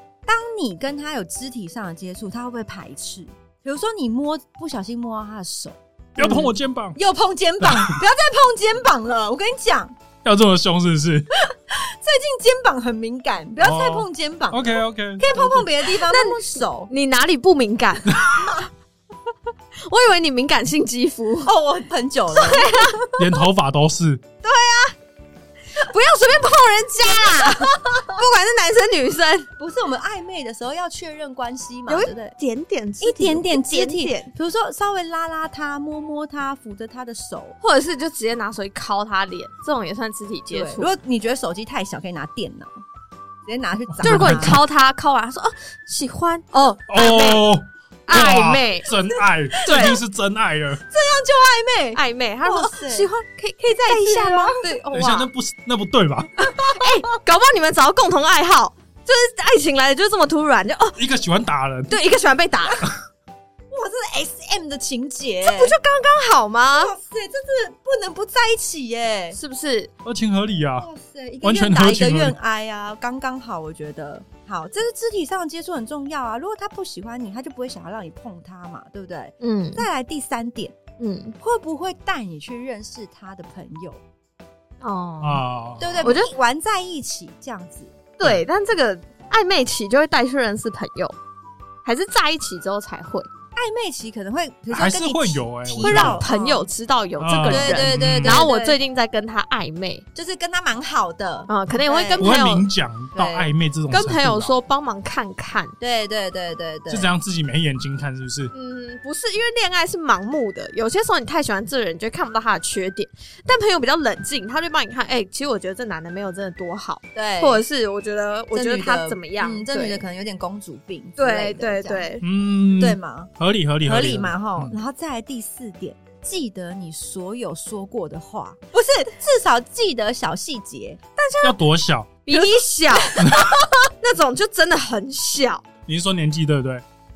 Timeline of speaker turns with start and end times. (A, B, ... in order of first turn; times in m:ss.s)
0:00.2-0:06.3 A
0:06.2-0:07.0 B
0:06.2-0:06.5 C
0:06.9-0:09.9 A
0:07.6-0:07.9 B
0:10.2-0:11.3 B
0:11.5-0:16.9 A
0:13.6-0:15.6 B
0:16.1-0:18.6 C
0:19.8-0:21.5 C
0:21.4-0:23.2 A
0:22.3-0:23.0 C
0:23.1-0:24.2 B
0:24.4-0:24.9 A
0:25.7-0:29.5 C
0:27.0-0:28.2 A
0:29.6-0:32.3 A
0:31.9-0:34.3 C
0:33.0-0:37.6 A
0:37.6-0:40.9 C
0:40.5-0:42.7 A
0:43.4-0:44.6 A
0:43.9-0:44.6 B
0:44.0-0:47.4 C
0:46.9-0:50.8 B
0:48.1-0:48.9 C
0:49.6-0:50.0 C
0:49.6-0:50.0 A
0:50.9-0:53.1 A
0:51.9-0:55.3 C
0:53.7-0:54.6 A
0:54.9-0:56.3 B
0:56.4-1:01.0 C
0:56.6-0:57.0 A
1:01.0-1:02.0 B
1:01.9-1:02.9 C
1:03.7-1:05.7 A
1:05.4-1:06.9 C
1:06.8-1:09.4 A
1:09.3-1:09.9 C
1:10.0-1:10.9 B
1:10.8-1:20.7 A
1:11.4-1:12.3 B
1:19.4-1:19.9 C
1:21.0-1:21.3 C
1:21.4-1:24.0 A
1:24.8-1:25.4 C
1:25.2-1:26.0 B
1:25.8-1:28.0 A
1:26.0-1:26.3 C
1:28.2-1:31.1 C
1:31.8-1:33.3 C
1:33.5-1:36.7 A
1:34.7-1:36.2 B
1:35.8-1:40.0 C
1:37.2-1:38.5 B
1:37.4-1:38.8 A
1:40.1-1:42.3 A
1:41.5-1:42.6 C
1:42.2-1:44.5 B
1:43.1-1:43.5 A
1:43.9-1:45.7 C
1:45.8-1:47.1 A
1:46.9-1:48.5 B
1:48.5-2:00.0 C
1:57.1-1:57.6 A
1:58.5-2:02.1 A
2:01.2-2:02.2 C
2:02.2-2:04.8 B
2:02.8-2:03.3 A
2:03.8-2:11.0 A
2:11.2-2:11.6 C
2:11.4-2:12.2 B
2:12.2-2:13.3 C
2:12.3-2:13.7 A
2:13.2-2:13.6 B
2:14.0-2:15.6 C
2:15.9-2:16.8 B